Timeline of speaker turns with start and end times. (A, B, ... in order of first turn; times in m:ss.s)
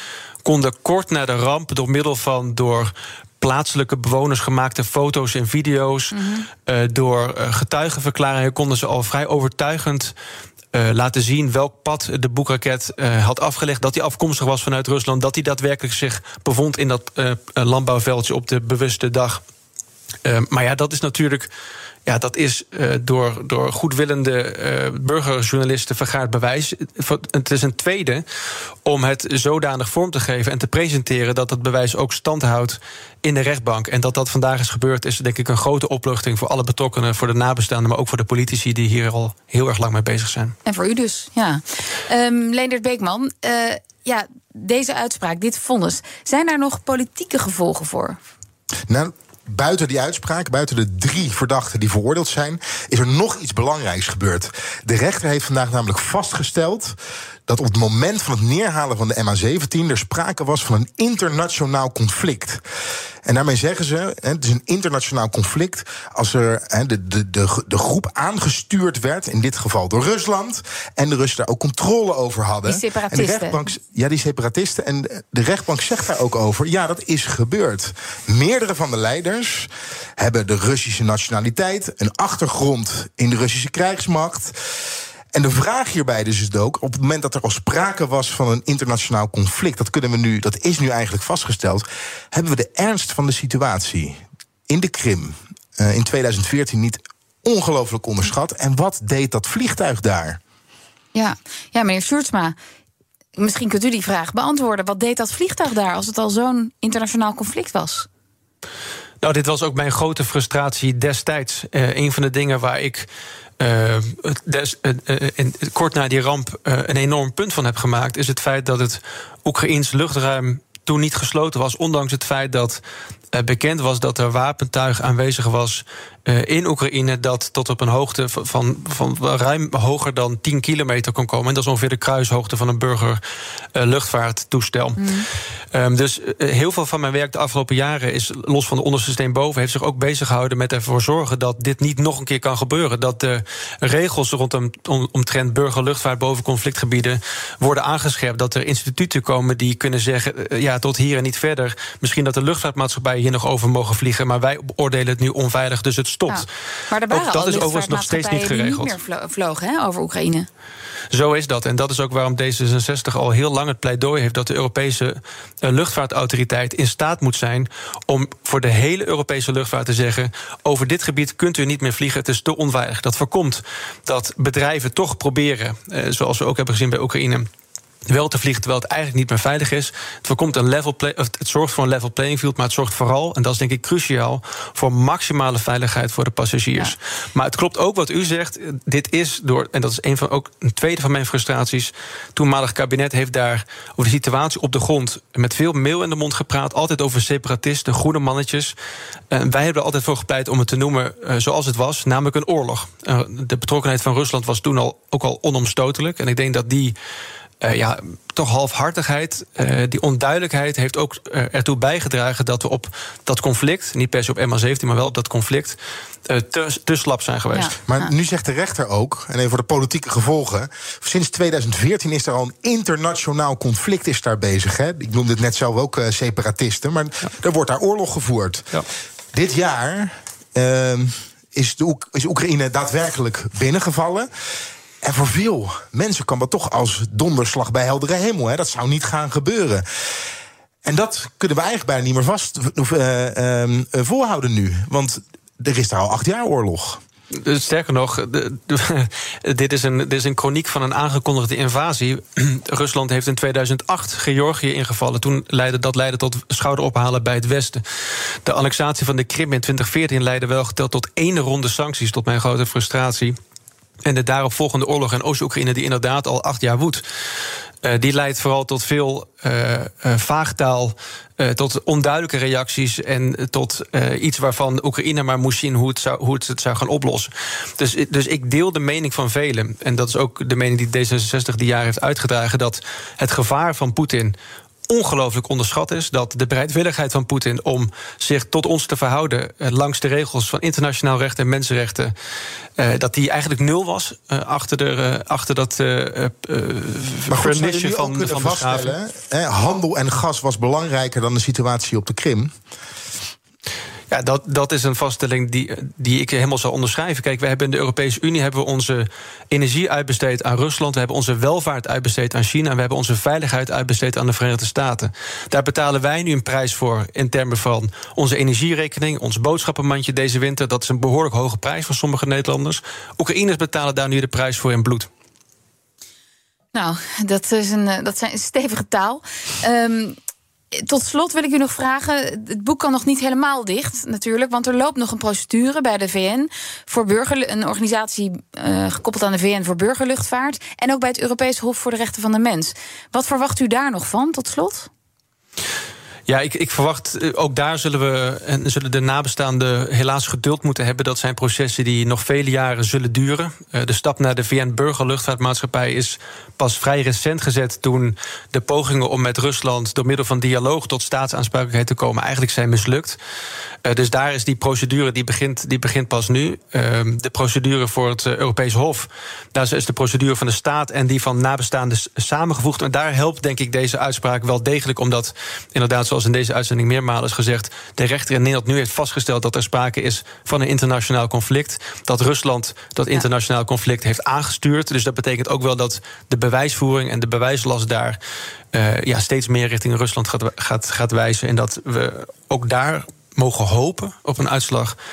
0:00.4-0:10.1 A
0:06.1-0:06.5 B
0:10.7-0:19.4 A
0:20.2-0:21.5 A
0:22.1-0:28.2 A
0:28.8-0:40.6 A
0:40.6-0:48.2 B
0:48.9-0:57.0 C
0:57.5-1:02.6 C
1:03.2-1:24.5 C
1:12.6-1:13.6 B
1:25.3-1:40.4 C
1:41.1-1:42.6 B
1:43.4-1:48.1 B
1:49.2-1:53.1 A
1:53.6-2:13.2 A
2:13.8-2:15.1 A
2:15.0-2:15.3 B
2:15.7-2:36.5 A
2:36.3-2:40.5 B
2:37.1-2:39.0 A
2:41.1-2:57.5 A
2:58.1-3:18.8 A
3:19.3-3:27.0 A
3:27.6-3:37.8 A
3:37.5-3:38.1 B
3:37.9-3:54.3 C
3:55.0-3:59.8 C
4:00.8-4:07.0 C
4:07.3-4:23.4 A
4:24.0-4:27.0 A
4:27.8-4:44.4 A
4:44.9-4:52.1 A
4:52.8-4:59.0 A
4:57.3-5:02.5 C
5:04.1-5:25.1 A
5:26.7-5:30.2 B
5:30.7-5:44.9 B
5:46.3-6:03.2 A
6:03.8-6:28.2 A
6:28.7-6:35.0 A